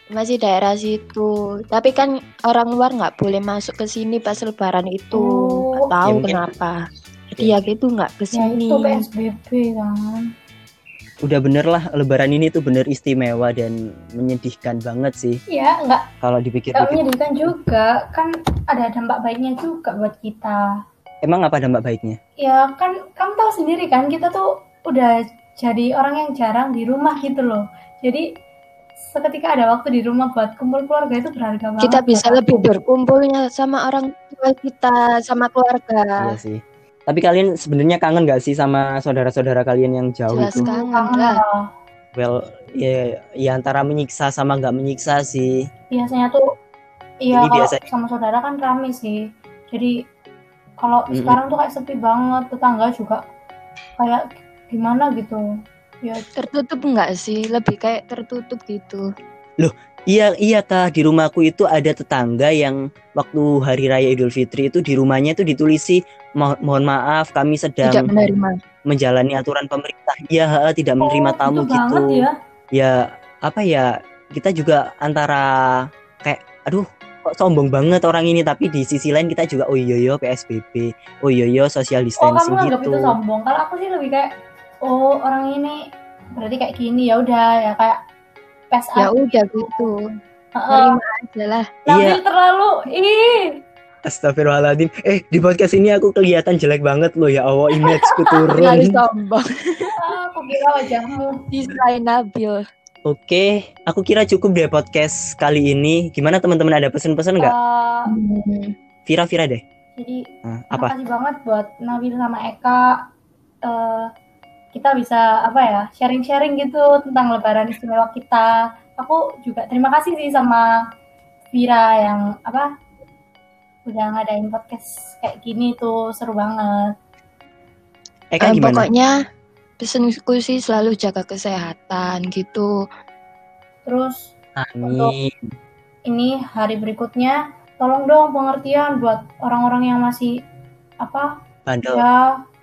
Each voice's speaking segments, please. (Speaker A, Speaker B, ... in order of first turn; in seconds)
Speaker A: 0.1-6.8, 7.4-9.0, 31.8-36.3, 40.3-41.4, 56.4-59.0, 67.8-68.5, 89.0-90.0, 90.7-91.7, 98.5-99.9, 101.5-102.6, 108.1-108.7, 128.4-129.1, 129.8-132.7
Speaker B: 5.1-5.8, 8.3-10.2, 15.5-16.0, 16.8-20.6, 22.4-28.2, 29.1-32.7, 40.5-41.6, 45.9-46.4, 47.2-49.9, 50.8-53.2, 54.0-55.4, 71.0-72.3, 82.2-84.3, 84.8-85.8, 86.4-88.0, 88.7-89.9, 90.5-90.9, 91.8-93.5, 98.0-98.5, 100.0-101.3, 107.4-108.1, 110.0-110.2, 110.7-113.0, 113.7-114.1, 114.7-120.7, 121.5-122.7, 123.9-126.9, 133.8-134.3, 134.8-135.1, 136.1-140.3, 141.0-141.3, 141.9-142.2
Speaker C: 6.0-6.4, 11.2-15.4, 16.2-17.0, 21.2-22.2, 36.2-40.7, 42.1-45.6, 47.3-47.8, 51.1-51.4, 59.6-68.1, 68.9-75.5, 76.2-83.2, 91.9-92.2, 94.0-98.9, 103.1-107.5, 109.0-109.6, 110.4-110.9, 128.3-128.8, 134.6-135.3, 141.7-142.1